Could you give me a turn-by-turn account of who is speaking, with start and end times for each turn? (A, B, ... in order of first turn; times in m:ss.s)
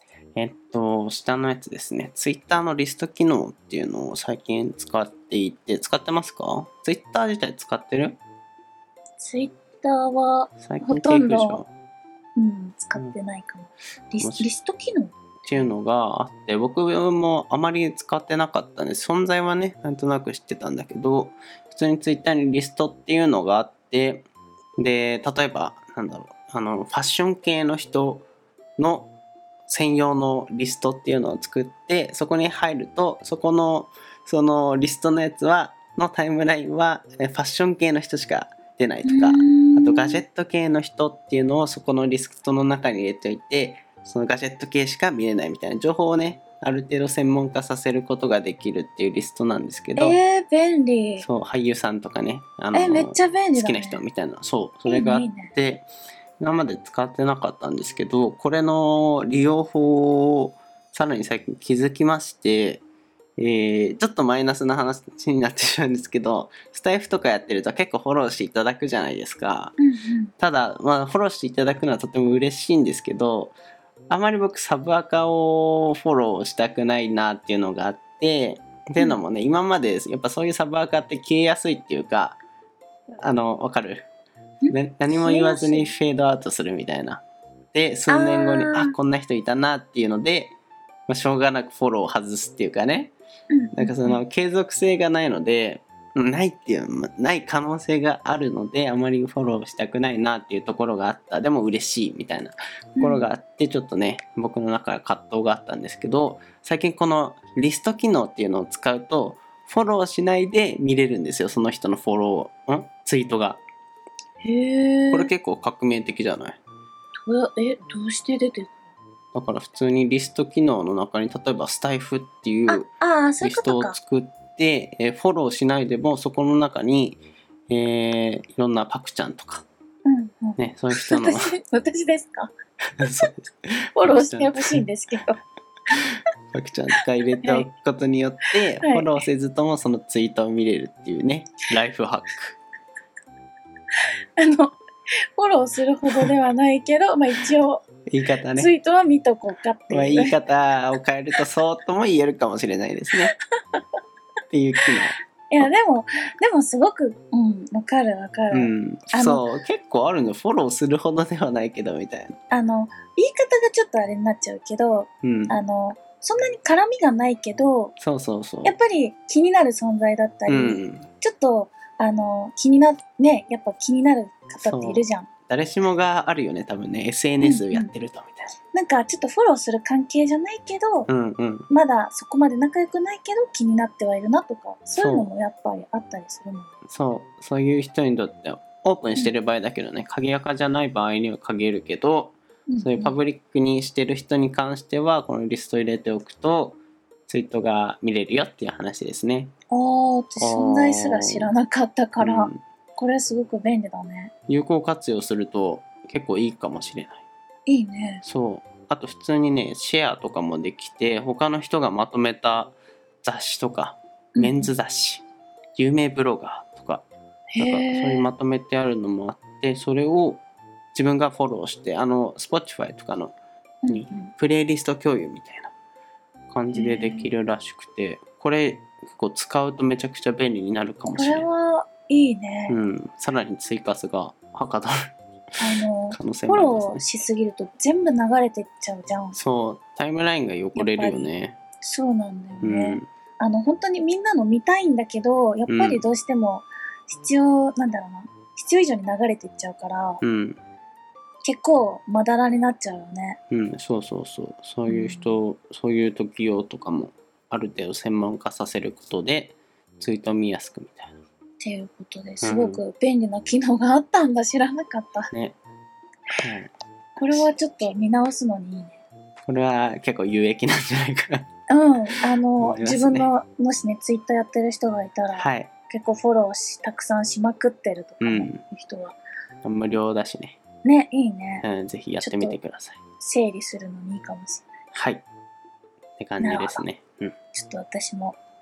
0:00.4-0:08.2 A
0:09.2-0:11.6 B
0:10.6-0:11.7 A
0:12.4-0:15.7 B
0:14.2-0:14.5 A
0:15.5-0:24.3 A
0:24.8-0:28.2 A
0:28.8-0:29.1 A
0:29.7-0:50.2 A
0:39.0-0:40.2 B
0:50.0-0:51.3 B
0:51.2-0:55.9 A
0:52.7-0:54.0 B
0:54.9-0:55.5 B
0:56.4-1:02.8 A
1:03.4-1:09.8 A
1:09.8-1:10.3 B
1:10.4-1:13.6 A
1:14.1-1:22.4 A
1:23.2-1:24.1 A
1:24.6-1:25.9 B
1:24.7-1:27.2 A
1:27.7-1:30.6 A
1:28.1-1:29.0 B
1:31.1-1:33.1 A
1:33.5-1:34.2 B
1:33.8-1:53.6 A
1:43.0-1:43.3 B
1:54.4-1:55.3 B
1:55.1-1:56.6 A
1:57.2-1:58.8 B
1:59.3-2:02.9 A
2:02.7-2:04.0 B
2:03.4-2:09.7 A
2:10.0-2:12.5 B
2:10.6-2:11.6 A
2:13.0-2:14.8 A
2:14.0-2:15.4 B
2:16.5-2:22.6 A
2:17.4-2:17.7 B
2:18.8-2:19.1 B
2:24.4-2:24.8 B
2:25.4-2:27.8 B
2:28.1-2:28.7 A
2:28.6-2:30.4 B
2:29.9-2:33.3 A
2:34.5-2:35.7 A
2:35.5-2:39.4 B
2:38.5-2:42.4 A
2:42.5-2:47.9 B
2:45.2-2:45.6 A
2:48.0-2:48.8 A
2:48.6-2:55.3 B
2:50.5-2:51.1 A
2:54.6-2:58.5 A
2:57.4-2:57.9 B
2:58.7-3:01.1 B
3:01.1-3:01.7 A
3:01.7-3:06.8 B
3:05.0-3:05.3 A
3:06.9-3:19.5 A
3:12.7-3:13.2 B
3:19.7-3:24.3 B
3:20.4-3:21.5 A
3:22.2-3:22.6 A
3:24.5-3:27.2 A
3:27.7-3:28.2 B
3:28.2-3:35.2 A
3:34.4-3:34.7 B
3:35.8-3:37.1 A
3:37.5-3:38.3 B
3:37.6-3:40.4 A
3:40.9-3:43.4 A
3:43.8-3:44.3 B
3:43.9-3:45.7 A
3:46.5-3:51.5 A
3:46.7-3:47.3 B
3:51.1-3:52.8 B
3:52.7-3:55.1 A
3:55.6-3:59.4 B
3:56.1-3:57.0 A
3:59.3-4:01.6 A
4:00.8-4:01.3 B
4:01.8-4:10.2 B
4:02.6-4:03.1 A
4:05.7-4:06.0 A
4:10.2-4:10.6 A
4:11.4-4:13.4 B
4:13.5-4:21.1 A
4:14.9-4:15.4 B
4:21.6-4:25.3 B
4:22.4-4:22.8 A
4:25.3-4:25.6 A
4:26.4-4:26.7 A
4:27.2-4:29.0 B
4:29.4-4:31.5 A
4:31.7-4:39.2 B
4:32.6-4:33.3 A
4:35.3-4:35.7 A
4:38.2-4:38.6 A
4:39.6-4:40.6 A
4:40.8-4:41.7 B
4:41.6-4:43.0 A
4:42.2-4:42.6 B
4:43.2-4:44.7 B
4:44.9-4:45.2 A
4:46.2-4:47.4 A
4:46.4-4:46.8 B
4:47.5-4:48.4 B